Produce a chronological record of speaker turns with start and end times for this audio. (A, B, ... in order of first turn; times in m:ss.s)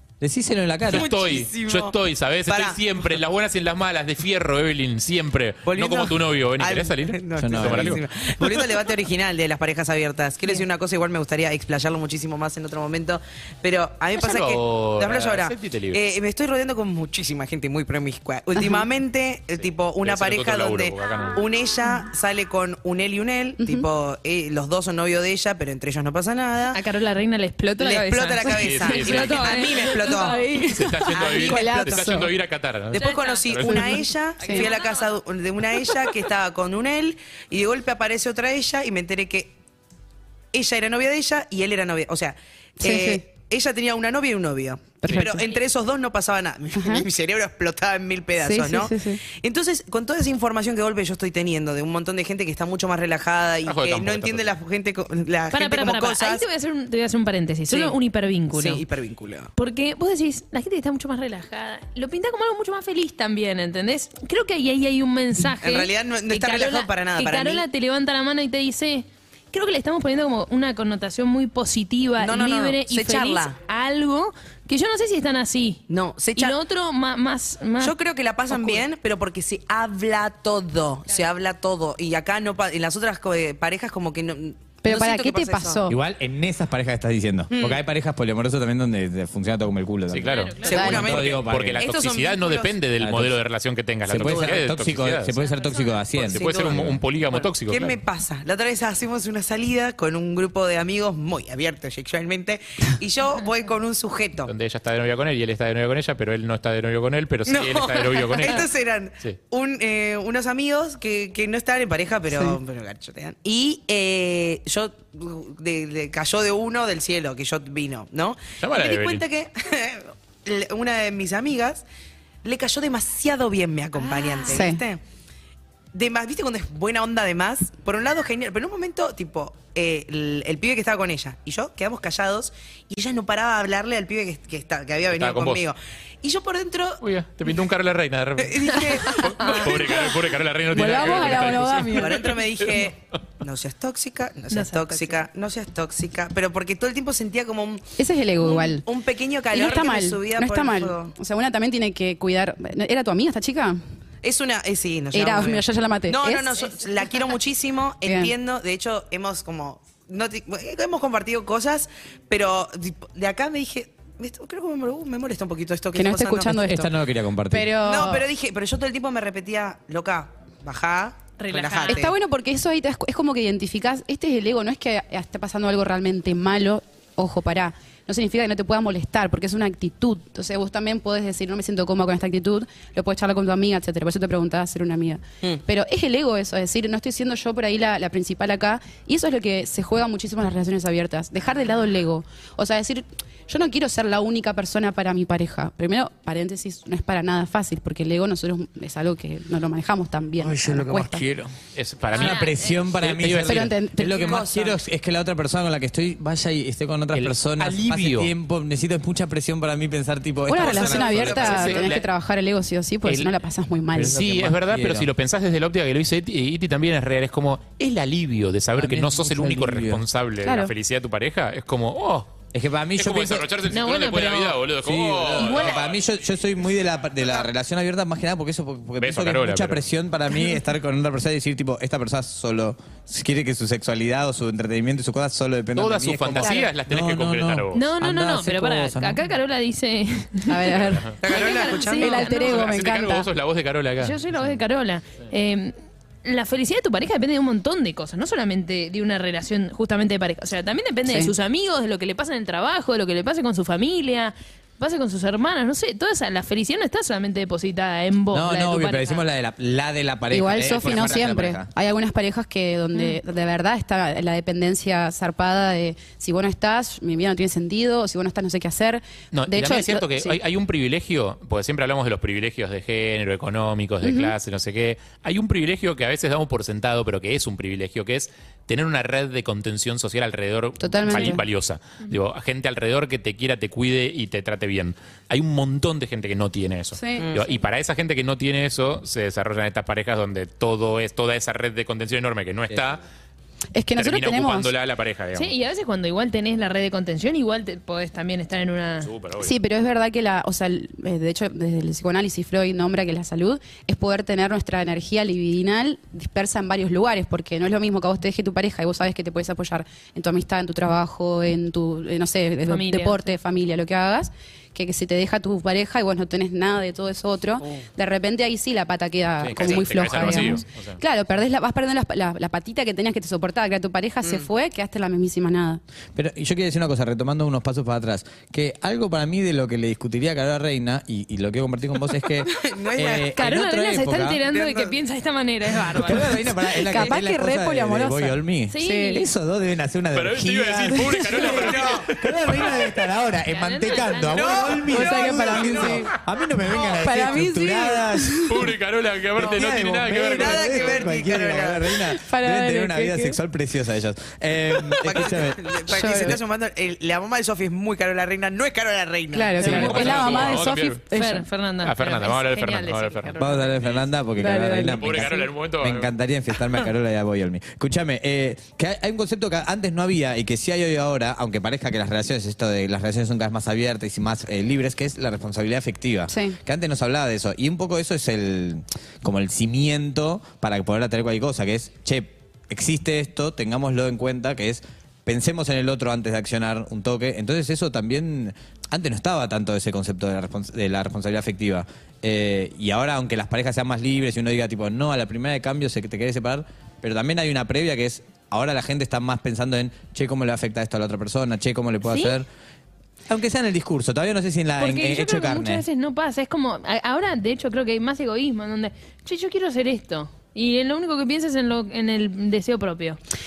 0:00.2-0:01.1 A
0:00.9-0:01.9 B
0:00.9-0:08.0 C
0:02.5-0:02.8 B
0:05.6-0:26.8 B
0:07.4-0:08.0 A
0:14.1-0:16.0 C
0:18.6-0:18.8 D
0:19.6-0:21.4 C
0:26.7-0:30.3 E
0:27.8-0:30.5 B
0:28.4-0:29.5 C
0:29.8-0:32.3 D
0:30.5-0:34.0 C
0:31.1-0:32.1 B
0:32.9-0:39.6 B
0:32.9-0:33.6 E
0:33.7-0:34.7 D
0:34.4-0:35.1 E
0:40.5-0:56.4 B
0:42.8-0:43.2 D
0:45.0-0:45.4 D
0:45.1-0:45.4 C
0:46.7-0:47.0 D
0:48.4-0:49.2 D
0:53.6-0:54.5 C
0:55.5-0:58.8 E
0:57.7-0:58.0 B
0:58.5-0:59.5 B
0:59.6-1:15.8 E
1:05.5-1:07.6 B
1:12.2-1:13.6 B
1:15.9-1:16.6 B
1:16.3-1:17.9 E
1:17.8-1:25.8 B
1:18.5-1:18.8 E
1:24.8-1:26.0 D
1:25.9-1:31.8 A
1:27.5-1:27.8 B
1:30.1-1:35.3 C
1:30.2-1:31.0 E
1:30.6-1:32.8 B
1:30.7-1:31.2 D
1:33.0-1:33.4 A
1:34.1-1:36.5 A
1:34.2-1:34.5 B
1:35.3-1:36.1 E
1:36.2-1:44.5 B
1:36.2-1:38.0 C
1:44.5-1:48.7 C
1:47.4-2:01.8 B
1:52.3-1:52.6 D
1:58.6-1:59.2 C
2:02.4-2:05.0 B
2:04.4-2:04.8 D
2:05.9-2:17.0 B
2:15.1-2:15.6 C
2:17.0-2:22.9 C
2:18.4-2:20.0 B
2:19.0-2:19.8 E
2:19.5-2:20.1 D
2:20.7-2:22.3 D
2:21.0-2:31.1 B
2:24.5-2:25.2 E
2:28.0-2:28.9 D
2:29.5-2:33.8 D
2:34.2-2:46.5 B
2:35.1-2:36.6 D
2:38.0-2:38.3 D
2:45.9-2:46.9 D
2:46.4-2:47.7 A
2:47.5-2:48.3 D
2:47.8-2:52.1 B
2:51.4-2:52.1 E
2:51.8-3:21.2 D
3:20.4-3:21.5 A
3:21.8-3:23.7 C
3:22.1-3:23.0 E
3:22.1-3:31.8 A
3:23.4-3:24.4 D
3:24.1-3:24.8 B
3:27.1-3:28.3 C
3:30.5-3:34.2 D
3:30.6-3:31.8 B
3:31.2-3:32.0 C
3:33.0-3:33.3 C
3:34.0-3:35.1 A
3:34.0-3:42.4 C
3:38.8-3:40.0 A
3:40.4-3:40.7 D
3:42.5-3:43.5 A
3:43.0-3:45.9 C
3:43.7-3:44.6 E
3:44.8-3:59.2 A
3:49.0-3:49.8 C
3:55.7-3:57.8 C
3:56.4-3:56.7 D
3:57.7-4:02.8 E
4:00.5-4:01.2 D
4:01.1-4:02.3 B
4:01.9-4:03.3 D
4:02.3-4:04.2 C
4:04.0-4:19.2 E
4:11.0-4:11.3 D
4:18.3-4:21.7 A
4:20.3-4:30.4 D
4:29.3-4:53.0 C
4:34.0-4:34.3 D
4:40.8-4:41.4 D
4:46.9-4:47.3 D
4:47.2-4:47.4 B
4:53.7-4:54.7 D
4:54.0-4:55.5 C
4:55.3-4:59.1 E
4:59.0-4:59.5 C
4:59.4-5:25.8 D
5:12.6-5:13.2 E
5:19.4-5:21.0 C
5:19.6-5:20.4 B
5:26.1-5:34.4 A
5:32.4-5:33.4 B
5:33.4-5:37.1 E
5:34.4-5:34.9 B
5:35.9-5:48.7 A
5:36.2-5:39.2 D
5:38.7-5:39.2 E
5:40.1-5:42.9 C
5:41.1-5:41.4 D
5:41.4-5:42.1 B
5:43.4-5:44.8 E
5:44.3-5:45.2 B
5:44.8-5:46.1 D
5:45.5-5:46.0 C
5:46.8-5:48.7 D
5:48.4-5:51.0 C
5:49.4-5:56.4 A
5:50.2-5:51.9 B
5:52.0-5:53.4 D
5:54.9-6:00.1 B
5:55.9-5:56.4 D
5:59.3-6:01.4 D
5:59.6-6:01.0 C
5:59.6-6:03.8 E
6:01.8-6:04.1 C
6:03.4-6:42.5 A
6:04.4-6:05.4 D
6:04.8-6:06.1 C
6:16.3-6:16.6 D
6:43.3-6:45.8 A
6:44.8-6:53.2 E